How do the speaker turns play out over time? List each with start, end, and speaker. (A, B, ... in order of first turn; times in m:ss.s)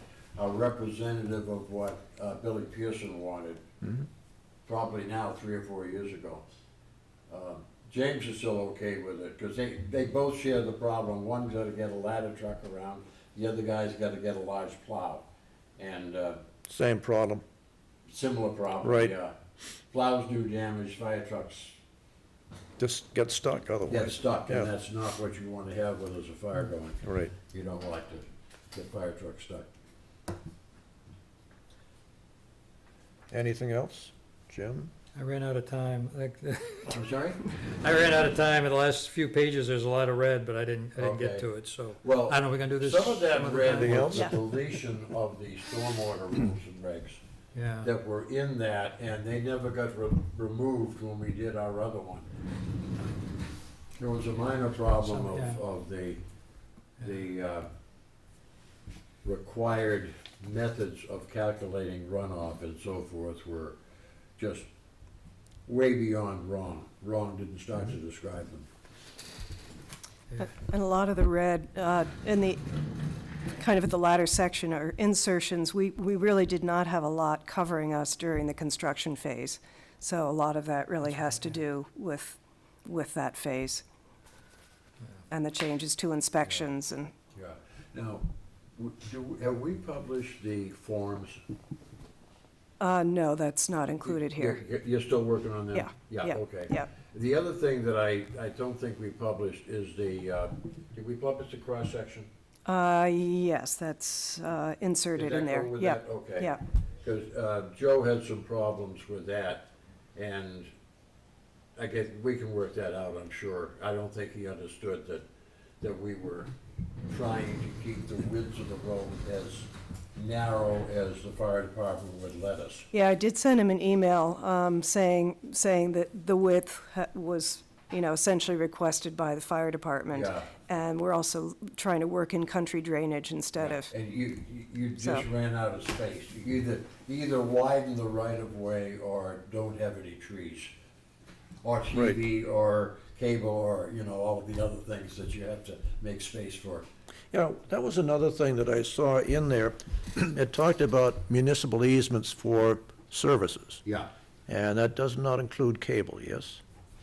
0:00.4-0:03.6 A
0:03.8-0:04.1 B
0:04.6-0:06.4 A
0:07.3-0:15.2 A
0:15.8-0:16.4 A
0:16.7-0:17.4 B
0:18.1-0:19.4 A
0:18.8-0:19.1 B
0:19.9-0:21.8 A
0:22.8-0:24.7 B
0:23.9-0:29.7 A
0:27.0-0:27.3 B
0:33.3-0:34.9 B
0:35.1-0:37.0 C
0:36.9-0:37.5 A
0:37.6-0:44.3 C
0:41.0-0:47.2 A
0:43.7-0:44.3 B
0:47.5-0:47.9 C
0:47.8-0:52.2 A
0:54.0-0:56.2 A
0:54.8-0:55.6 C
0:57.0-0:57.7 A
0:59.2-1:03.8 A
1:04.4-1:04.7 A
1:05.7-1:08.7 A
1:10.4-1:12.6 D
1:13.6-1:23.8 D
1:25.3-1:27.1 D
1:27.3-1:28.2 A
1:28.8-1:31.4 A
1:32.8-1:34.6 D
1:34.0-1:42.3 A
1:35.7-1:36.9 D
1:42.7-1:46.6 D
1:45.1-1:50.7 A
1:51.8-1:55.2 A
1:55.8-1:56.5 A
1:57.0-2:02.9 A
2:02.9-2:13.9 D
2:10.1-2:10.5 A
2:13.6-2:20.7 A
2:15.0-2:15.2 D
2:21.6-2:26.8 A
2:21.9-2:22.2 B
2:27.3-2:33.8 B
2:33.8-2:34.1 A
2:34.5-2:36.6 B